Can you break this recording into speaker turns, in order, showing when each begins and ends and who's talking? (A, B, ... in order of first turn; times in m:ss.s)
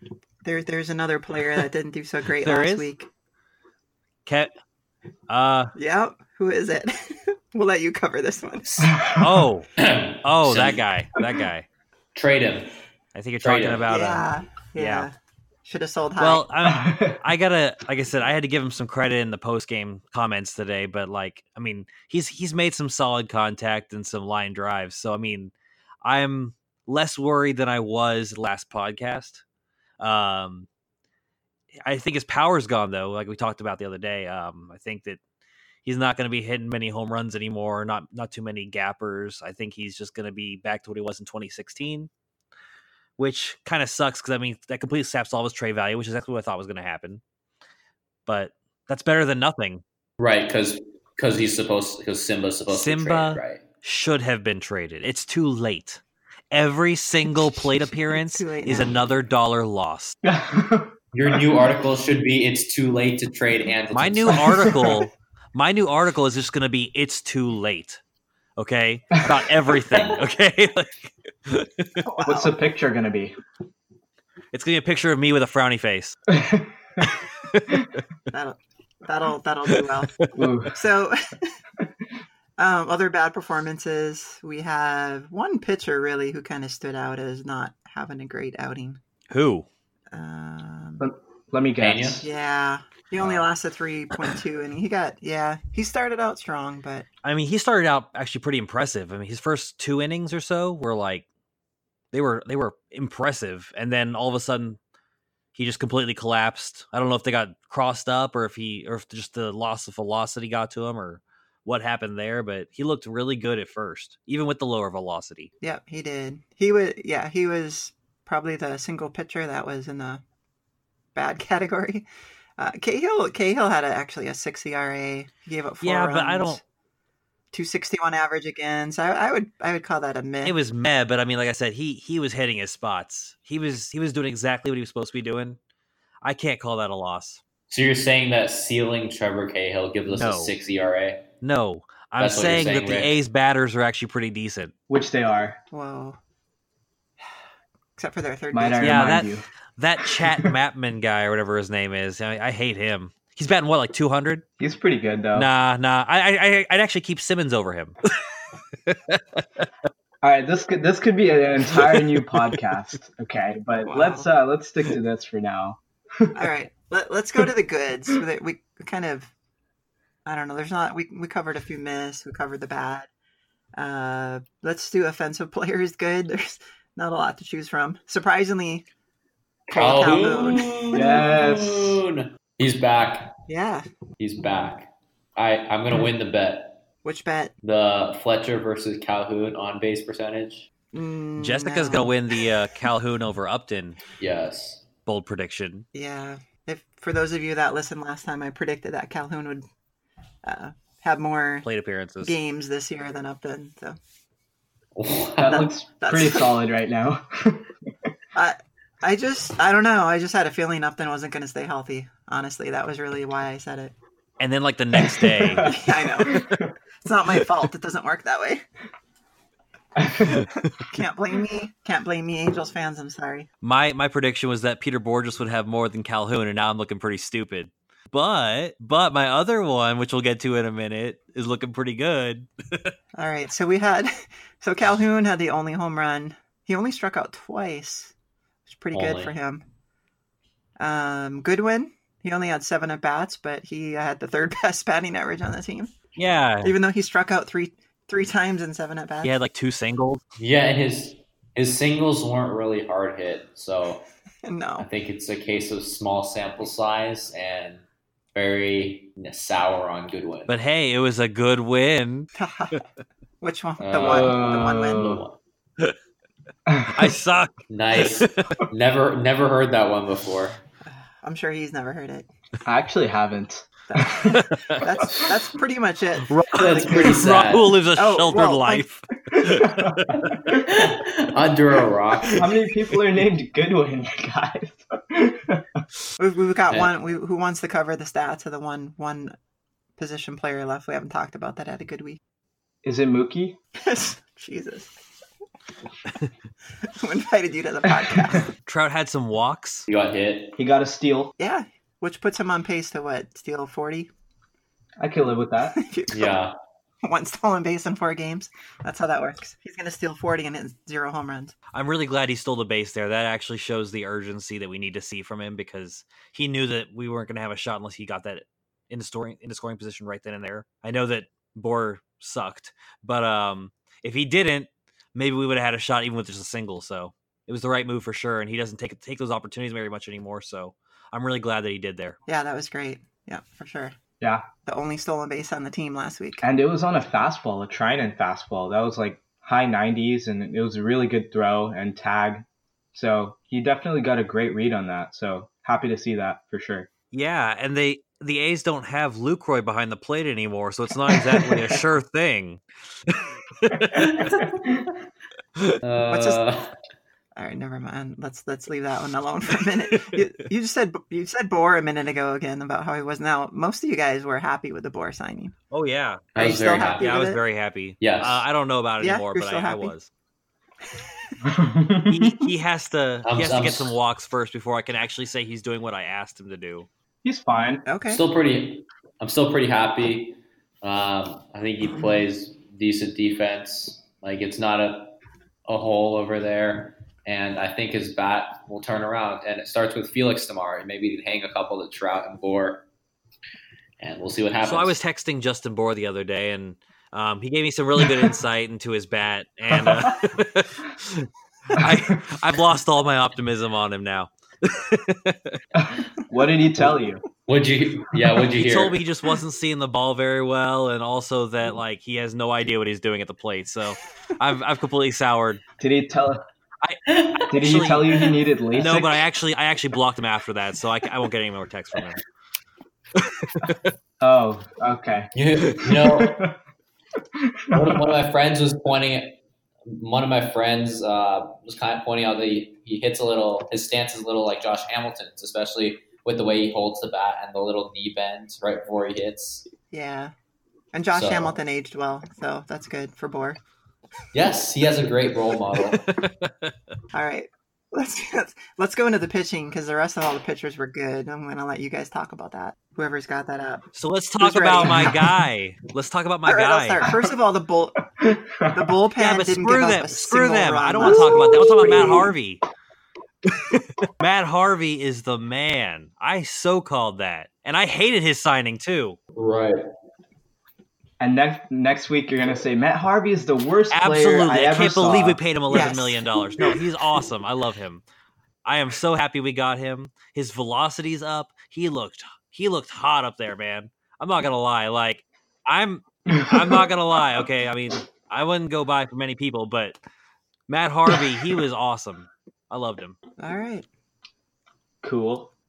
0:00.4-0:03.1 A
0:02.4-0:02.9 B
0:04.3-0:04.5 B
0:05.3-0:05.7 B
0:05.8-0:08.8 A
0:08.7-0:09.0 C
0:08.8-0:09.5 D
0:09.2-0:09.7 B
0:09.8-0:10.8 C
0:10.2-0:11.7 B
0:12.2-0:12.7 C
0:13.2-0:14.2 B
0:13.4-0:13.9 C
0:13.9-0:16.4 A
0:14.8-0:15.1 B
0:16.2-0:29.4 B
0:16.6-0:17.2 D
0:30.0-0:30.7 B
0:31.9-0:35.2 B
0:35.8-0:42.1 B
0:43.2-0:47.2 B
0:48.3-0:49.8 B
0:50.2-0:53.6 C
0:52.7-1:00.2 B
0:57.9-0:59.0 A
1:00.2-1:01.7 D
1:01.1-1:04.9 C
1:03.9-1:08.0 B
1:04.5-1:05.0 D
1:08.6-1:12.0 B
1:09.9-1:10.2 C
1:12.0-1:12.6 A
1:12.3-1:13.4 D
1:14.5-1:16.2 B
1:16.3-1:17.0 D
1:17.0-1:17.8 B
1:18.3-1:20.2 A
1:20.4-1:20.8 D
1:20.7-1:21.6 A
1:22.6-1:29.0 A
1:29.3-1:29.7 B
1:30.1-1:31.1 A
1:31.0-1:32.2 D
1:31.8-1:32.3 C
1:32.2-1:37.0 A
1:37.2-1:41.3 B
1:42.1-1:44.8 B
1:45.6-1:55.5 B
1:55.6-2:00.2 A
2:01.2-2:02.1 A
2:02.6-2:06.6 A
2:05.8-2:06.6 B
2:07.5-2:10.6 A
2:10.4-2:15.6 B
2:16.2-2:17.4 B
2:17.7-2:21.2 C
2:20.1-2:20.5 B
2:21.4-2:24.7 B
2:22.2-2:23.2 C
2:24.9-2:25.6 D
2:25.7-2:26.2 A
2:28.0-2:29.2 A
2:28.5-2:29.5 D
2:28.8-2:34.4 B
2:30.0-2:30.5 D
2:34.6-2:35.5 D
2:35.4-2:38.0 B
2:38.9-2:39.6 B
2:40.2-2:46.4 D
2:43.9-2:44.3 A
2:46.4-2:49.3 A
2:50.3-2:53.1 A
2:53.8-2:58.8 A
2:59.7-3:01.0 A
2:59.7-3:03.4 C
3:00.9-3:02.0 D
3:03.5-3:03.9 A
3:04.2-3:06.8 C
3:07.0-3:07.5 A
3:07.6-3:10.7 C
3:10.9-3:12.1 A
3:11.4-3:14.0 B
3:14.2-3:14.9 C
3:15.1-3:15.9 B
3:15.9-3:19.7 A
3:20.4-3:21.7 A
3:21.6-3:22.4 B
3:22.2-3:24.0 A
3:25.0-3:25.7 C
3:25.4-3:27.7 D
3:25.5-3:26.5 A
3:28.4-3:33.9 A
3:34.4-3:35.7 B
3:35.0-3:36.7 D
3:35.6-3:36.5 A
3:37.0-3:38.6 A
3:40.0-3:40.5 D
3:40.8-3:43.5 A
3:43.6-3:53.0 B
3:53.2-3:58.1 A
3:58.7-3:59.6 A
3:58.9-3:59.3 C
4:00.8-4:05.9 A
4:06.2-4:06.7 B
4:06.6-4:09.4 A
4:09.2-4:10.2 B
4:10.4-4:14.0 C
4:14.4-4:14.9 A
4:14.8-4:17.8 C
4:18.4-4:20.5 C
4:20.5-4:22.3 B
4:22.4-4:22.8 A
4:23.4-4:25.1 A
4:23.8-4:25.4 C
4:24.0-4:25.2 D
4:26.7-4:27.1 D
4:26.9-4:28.6 B
4:27.7-4:30.6 C
4:30.9-4:32.3 A
4:32.6-4:34.4 D
4:33.9-4:37.3 A
4:34.3-4:34.9 B
4:36.2-4:40.5 B
4:36.5-4:37.8 C
4:38.0-4:38.9 A
4:39.5-4:40.3 D
4:40.5-4:42.5 C
4:42.4-4:45.8 D
4:46.2-4:49.4 A
4:50.0-4:52.2 A
4:52.8-4:53.6 D
4:53.8-4:55.0 A
4:56.8-4:58.5 A
4:58.6-4:59.9 B
4:59.9-5:00.6 C
5:00.6-5:01.3 D
5:01.4-5:04.1 A
5:05.0-5:05.8 D
5:05.7-5:06.4 A
5:06.1-5:06.5 C
5:07.0-5:11.6 A
5:11.7-5:32.2 B
5:32.3-5:34.0 A
5:34.2-5:34.5 D
5:34.6-5:36.4 A
5:36.4-5:46.9 D
5:47.1-5:54.4 B
5:51.1-5:51.8 D
5:54.1-5:54.4 C
5:54.2-5:54.8 D
5:55.8-5:56.7 C
5:56.1-5:56.4 A
5:57.4-6:05.5 A
6:05.7-6:10.1 B
6:06.3-6:07.1 C
6:06.4-6:07.4 A
6:08.0-6:08.4 C
6:09.0-6:10.0 A
6:11.4-6:12.4 D
6:12.1-6:16.9 B
6:13.2-6:14.0 C
6:17.2-6:17.8 D
6:17.9-6:18.2 A
6:18.1-6:32.8 C
6:34.0-6:35.0 C
6:34.6-6:45.6 B
6:39.7-6:40.2 D
6:45.8-6:47.2 D
6:47.5-6:49.0 C
6:48.5-6:55.6 B
6:55.8-6:56.4 D
6:56.8-7:02.2 B
6:57.1-6:58.3 C
6:57.5-6:59.3 D
7:03.2-7:03.9 B
7:04.2-7:05.3 D
7:05.4-7:06.4 C
7:05.8-7:06.6 D
7:07.4-7:08.0 D
7:07.7-7:19.7 C
7:19.9-7:20.3 A
7:20.9-7:23.6 A
7:21.1-7:21.6 C
7:24.3-7:26.1 C
7:25.8-7:26.7 B
7:27.1-7:33.9 A
7:33.9-7:37.1 B
7:34.4-7:35.2 A
7:34.9-7:35.3 D
7:36.5-7:38.0 A
7:38.2-7:38.9 D
7:38.7-7:42.2 A
7:39.2-7:42.6 B
7:41.0-7:42.3 D
7:43.5-7:49.2 B
7:49.4-7:49.8 C
7:51.2-7:55.4 D
7:53.9-7:58.0 B
7:55.7-7:56.3 A
7:58.6-8:10.0 B
8:06.4-8:06.8 D
8:10.7-8:13.2 B
8:13.4-8:13.9 A
8:15.0-8:15.5 D